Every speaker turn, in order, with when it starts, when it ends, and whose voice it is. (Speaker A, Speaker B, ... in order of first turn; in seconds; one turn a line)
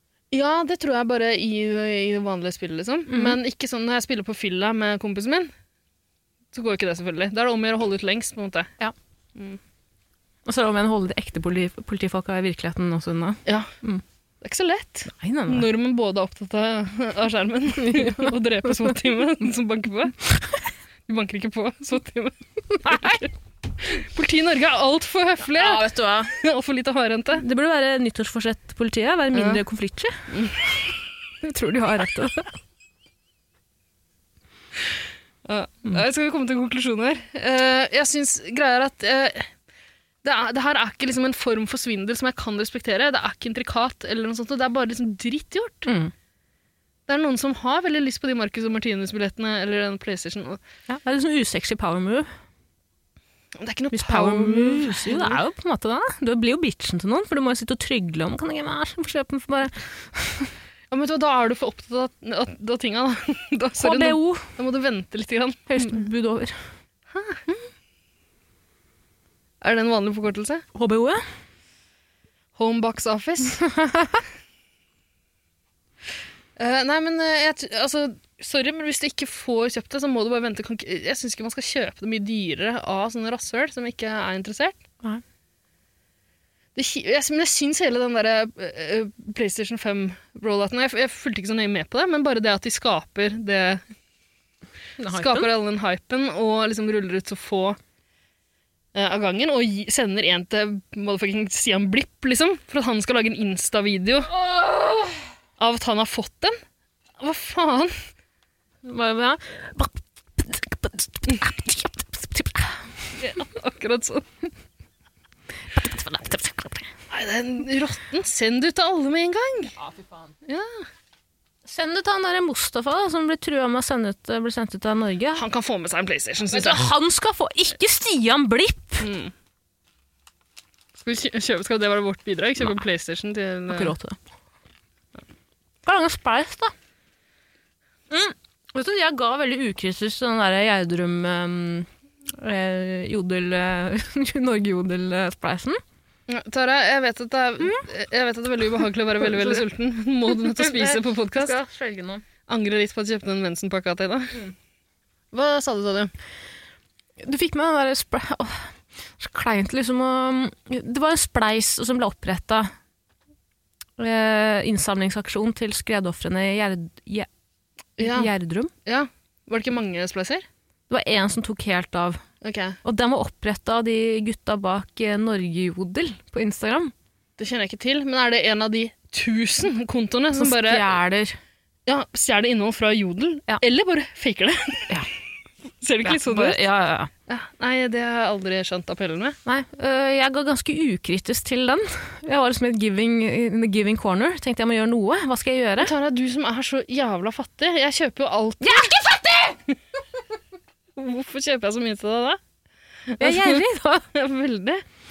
Speaker A: 0.3-5.5
Speaker B: 3.1-3.4
Speaker A: 6.5-8.7
Speaker B: 10.4-14.0
Speaker A: 13.4-13.7
Speaker A: 14.4-20.3
Speaker B: 15.1-15.7
Speaker B: 17.8-18.9
Speaker A: 21.1-27.4
Speaker B: 22.7-23.2
Speaker B: 25.4-26.3
Speaker B: 27.4-30.2
Speaker A: 29.3-29.6
Speaker A: 30.3-30.6
Speaker B: 31.4-32.5
Speaker A: 35.4-39.5
Speaker A: 40.2-45.9
Speaker B: 45.9-46.1
Speaker A: 47.1-50.6
Speaker B: 50.9-52.3
Speaker A: 53.6-55.4
Speaker B: 53.9-60.5
Speaker A: 60.9-66.0
Speaker B: 63.8-64.5
Speaker B: 65.7-66.5
Speaker A: 67.1-67.6
Speaker A: 69.6-70.6
Speaker B: 70.7-71.2
Speaker A: 72.5-73.6
Speaker B: 73.6-74.2
Speaker A: 76.6-84.8
Speaker A: 86.7-93.8
Speaker B: 95.0-95.5
Speaker A: 95.1-97.8
Speaker A: 98.9-104.3
Speaker B: 104.3-105.2
Speaker A: 105.6-106.5
Speaker A: 107.2-108.0
Speaker B: 108.8-112.9
Speaker A: 113.2-114.2
Speaker B: 115.7-116.9
Speaker A: 117.1-119.7
Speaker B: 119.8-120.3
Speaker A: 120.4-120.9
Speaker B: 121.7-125.4
Speaker A: 125.4-126.9
Speaker B: 126.5-129.1
Speaker A: 129.0-129.3
Speaker A: 131.0-133.9
Speaker B: 133.7-134.2
Speaker B: 135.8-136.7
Speaker B: 138.1-145.8
Speaker A: 146.3-151.6
Speaker B: 147.6-147.8
Speaker B: 149.2-149.6
Speaker B: 150.3-152.2
Speaker A: 152.5-154.4
Speaker A: 155.3-156.1
Speaker B: 157.2-162.7
Speaker B: 164.0-167.3
Speaker A: 168.0-168.3
Speaker B: 168.0-168.7
Speaker A: 168.8-170.4
Speaker B: 170.9-172.2
Speaker A: 172.4-172.8
Speaker B: 172.8-176.9
Speaker A: 177.4-180.9
Speaker B: 180.3-181.4
Speaker A: 181.8-184.9
Speaker A: 185.8-186.6
Speaker B: 186.0-187.1
Speaker A: 187.3-189.4
Speaker B: 189.4-195.9
Speaker A: 195.8-198.9
Speaker B: 198.6-199.6
Speaker A: 200.9-202.4
Speaker A: 203.1-203.6
Speaker B: 203.2-204.1
Speaker A: 204.1-204.8